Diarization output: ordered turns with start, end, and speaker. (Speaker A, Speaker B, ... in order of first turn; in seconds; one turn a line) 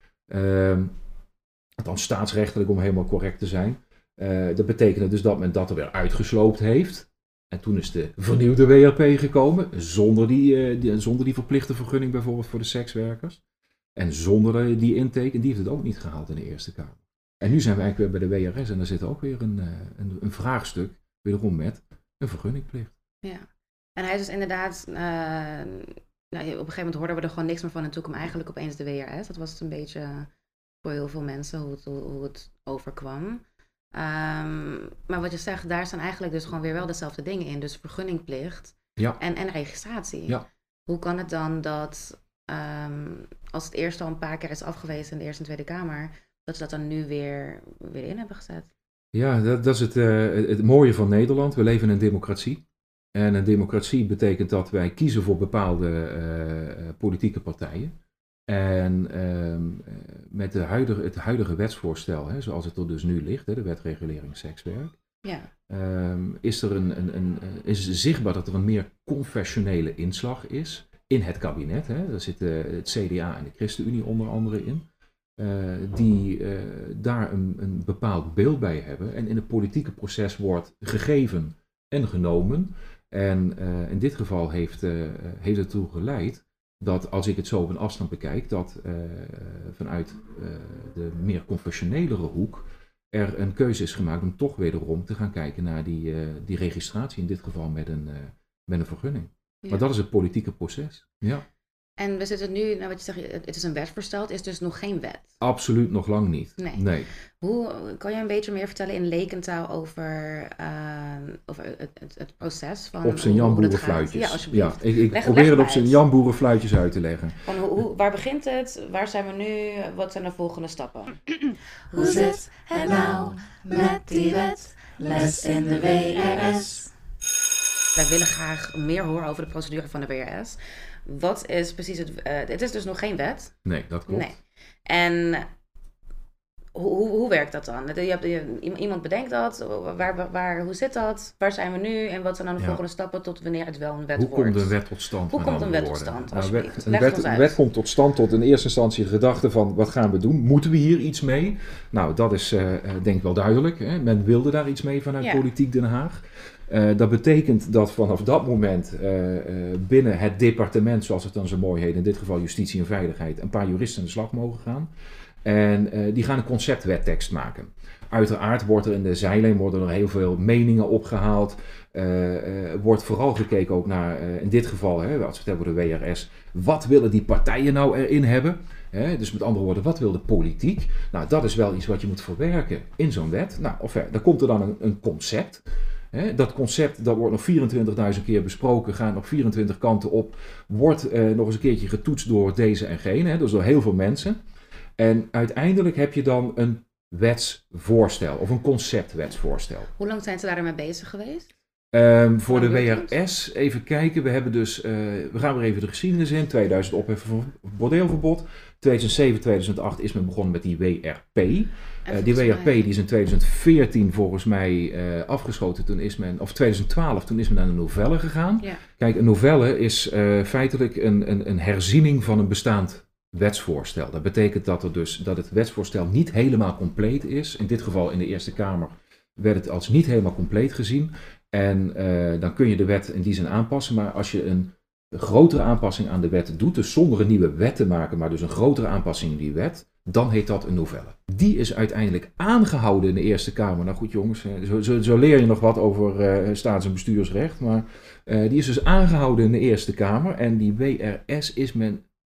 Speaker A: 0.3-0.9
Speaker A: 1.8-13.4
Speaker A: 14.0-22.9
Speaker B: 23.2-30.3
Speaker B: 30.8-33.4
Speaker B: 33.9-48.7
Speaker A: 49.1-52.6
Speaker A: 53.1-57.9
Speaker A: 58.5-65.0
Speaker B: 65.2-65.5
Speaker A: 65.7-74.8
Speaker A: 75.4-101.5
Speaker B: 102.0-105.3
Speaker A: 105.4-107.1
Speaker B: 106.6-106.8
Speaker B: 107.4-116.0
Speaker A: 113.0-117.4
Speaker B: 117.5-121.2
Speaker C: 121.9-126.9
Speaker B: 128.0-133.6
Speaker A: 133.7-134.3
Speaker B: 134.1-135.5
Speaker B: 136.8-144.7
Speaker A: 144.2-164.9
Speaker B: 145.3-147.6
Speaker A: 165.4-194.4
Speaker A: 195.0-199.9
Speaker B: 200.0-201.5
Speaker A: 201.9-252.0
Speaker B: 202.5-203.1
Speaker B: 212.1-212.8